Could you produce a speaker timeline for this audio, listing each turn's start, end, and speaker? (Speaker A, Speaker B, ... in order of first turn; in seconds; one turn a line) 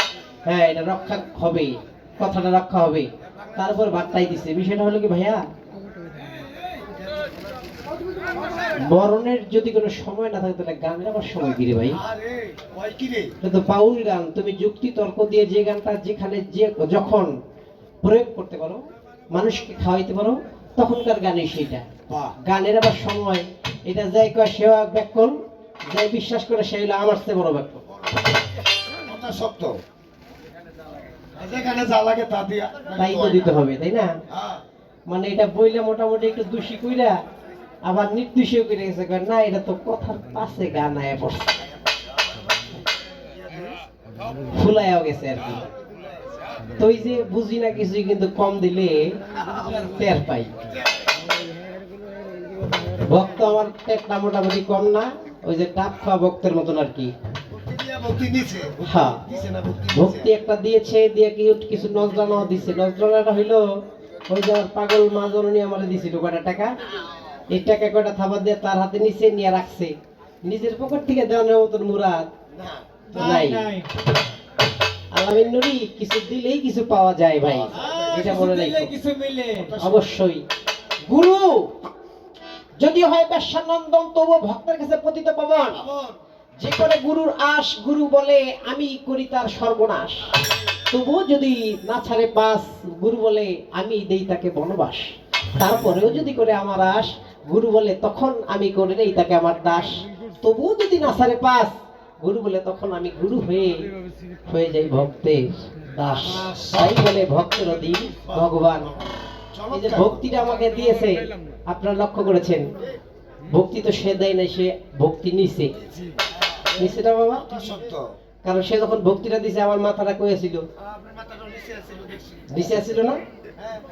Speaker A: 0.5-5.5
Speaker A: 8.8-12.0
Speaker B: 12.0-13.3
Speaker A: 13.4-17.3
Speaker A: 18.0-21.9
Speaker B: 22.1-22.4
Speaker A: 22.4-27.8
Speaker B: 29.1-29.8
Speaker B: 31.4-33.6
Speaker A: 33.0-34.1
Speaker B: 34.3-34.6
Speaker A: 35.1-37.2
Speaker A: 37.9-41.5
Speaker A: 44.5-45.6
Speaker A: 46.8-49.1
Speaker B: 49.4-50.0
Speaker A: 49.7-50.5
Speaker A: 53.0-57.1
Speaker B: 57.5-60.3
Speaker A: 58.8-59.2
Speaker A: 59.9-63.7
Speaker A: 64.3-66.8
Speaker A: 67.5-69.9
Speaker A: 70.5-72.3
Speaker B: 72.5-72.9
Speaker C: 73.1-73.9
Speaker A: 73.1-73.7
Speaker A: 75.1-78.9
Speaker B: 77.5-78.5
Speaker C: 77.8-79.7
Speaker B: 79.6-80.0
Speaker A: 79.8-80.4
Speaker A: 81.1-81.9
Speaker A: 82.8-85.8
Speaker B: 85.7-86.2
Speaker A: 86.6-90.3
Speaker A: 90.9-103.9
Speaker A: 104.5-109.0
Speaker B: 106.0-107.1
Speaker B: 109.5-110.2
Speaker A: 109.7-112.7
Speaker A: 113.5-115.7
Speaker B: 115.9-116.2
Speaker A: 116.8-117.5
Speaker B: 117.5-118.1
Speaker A: 118.4-120.6
Speaker B: 120.8-122.5
Speaker A: 122.5-123.2